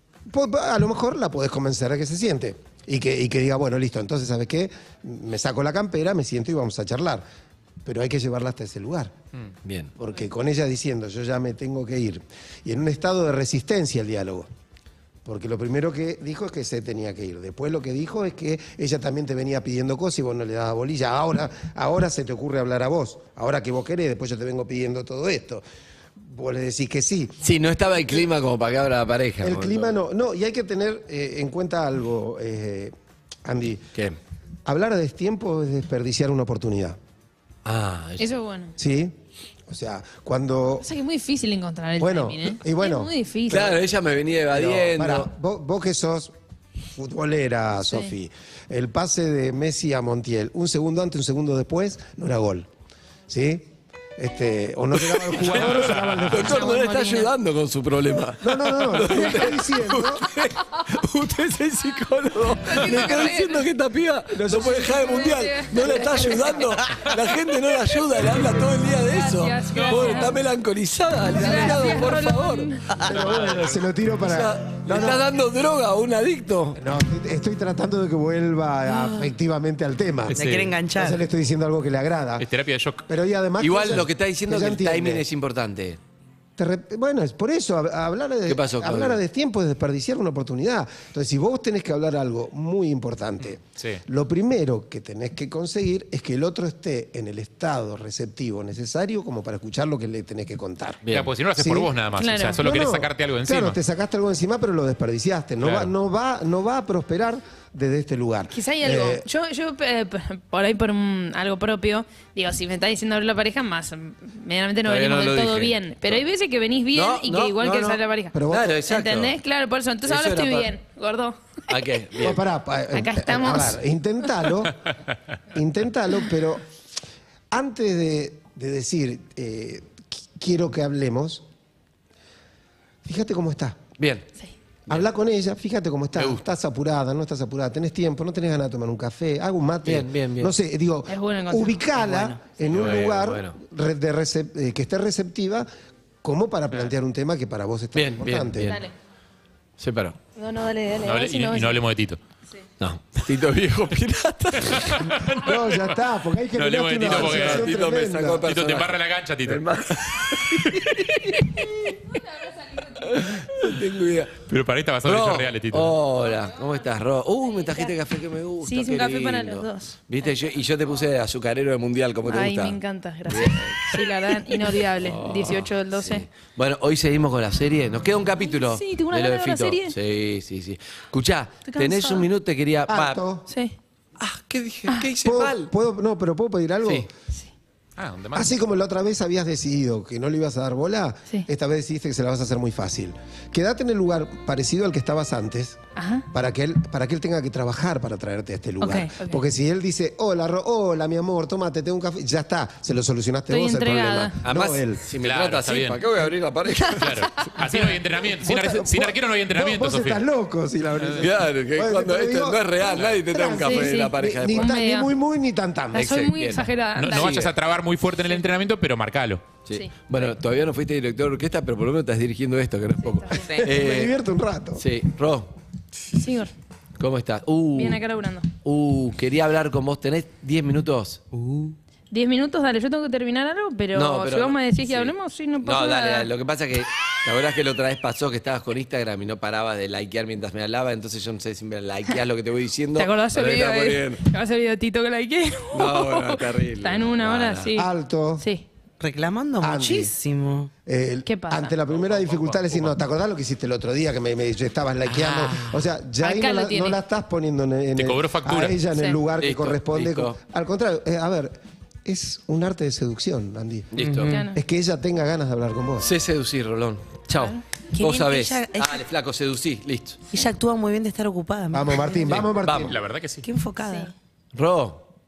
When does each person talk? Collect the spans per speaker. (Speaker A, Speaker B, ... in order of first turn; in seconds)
Speaker A: 0.3-7.2, 7.8-9.1, 10.0-14.5, 15.2-25.6, 26.2-27.4, 29.4-33.9, 34.6-37.0, 38.8-39.1, 39.7-40.9, 42.0-43.1, 44.5-46.3, 47.0-52.7, 53.3-56.8, 58.4-60.3, 64.3-65.1, 65.8-66.7, 71.3-71.8, 73.0-75.2, 76.7-80.4, 81.0-82.5, 83.1-85.2, 86.6-101.0, 101.6-101.9, 102.6-109.2, 118.3-118.8, 122.2-124.8, 125.5-126.6, 127.5-131.4, 133.0-133.8, 134.9-145.7, 146.2-148.8, 155.3-158.5, 182.9-183.4, 185.2-187.1, 188.3-195.8, 196.3-205.0, 208.4-216.1, 223.6-224.8, 247.7-248.4, 249.6-250.1, 250.8-263.9, 264.5-266.1, 271.7-273.0
Speaker B: 9.6-9.9, 27.4-29.9, 37.6-38.3, 43.5-45.3, 54.9-76.8, 83.6-86.0, 88.5-89.2, 101.0-101.3, 114.8-116.2, 116.9-119.4, 120.0-120.7, 121.7-122.4, 134.0-134.3, 136.2-136.4, 139.8-140.5, 142.1-143.6, 147.9-148.8, 149.8-150.2, 152.8-155.2, 157.0-162.0, 163.0-164.4, 165.0-174.0, 174.5-183.2, 184.2-185.7, 204.4-207.5, 211.2-214.7, 215.9-217.5, 219.7-224.1, 224.8-225.5, 227.0-228.0, 228.6-231.7, 233.9-244.2, 245.7-247.7, 252.0-252.9, 255.1-255.8, 259.4-260.4, 263.9-264.4, 266.0-270.2, 272.2-272.9, 274.5-275.1
Speaker C: 38.2-38.7, 40.7-43.8, 56.5-57.3, 62.6-63.6, 64.5-66.5, 69.0-70.3, 71.3-72.8, 102.2-102.6, 108.5-118.3, 118.9-121.8, 122.9-123.8, 141.1-141.8, 150.3-151.8, 168.6-170.0, 172.3-176.2, 178.4-179.9, 181.7-182.3, 183.5-183.7, 195.9-196.3, 198.8-199.4, 203.5-204.3, 207.0-207.8, 213.5-215.1, 215.9-217.4, 223.0-223.5, 226.1-226.5, 227.7-228.5, 232.1-236.3, 242.9-248.6, 251.2-251.7, 256.2-257.0, 258.9-259.2, 264.3-264.6, 267.3-267.6
Speaker D: 55.4-56.5, 69.8-70.3, 80.3-80.8, 82.4-83.0, 101.1-103.8, 105.6-105.9, 151.0-152.2, 154.6-155.9, 156.6-157.7, 158.4-161.2, 164.5-165.9, 188.0-188.6, 205.1-206.0, 207.0-210.2, 211.0-211.3, 216.9-219.6, 257.9-258.8, 272.8-273.4
Speaker E: 73.0-73.3, 80.3-81.2, 249.0-250.7, 264.0-264.3, 267.9-269.0, 270.3-272.4, 273.4-274.1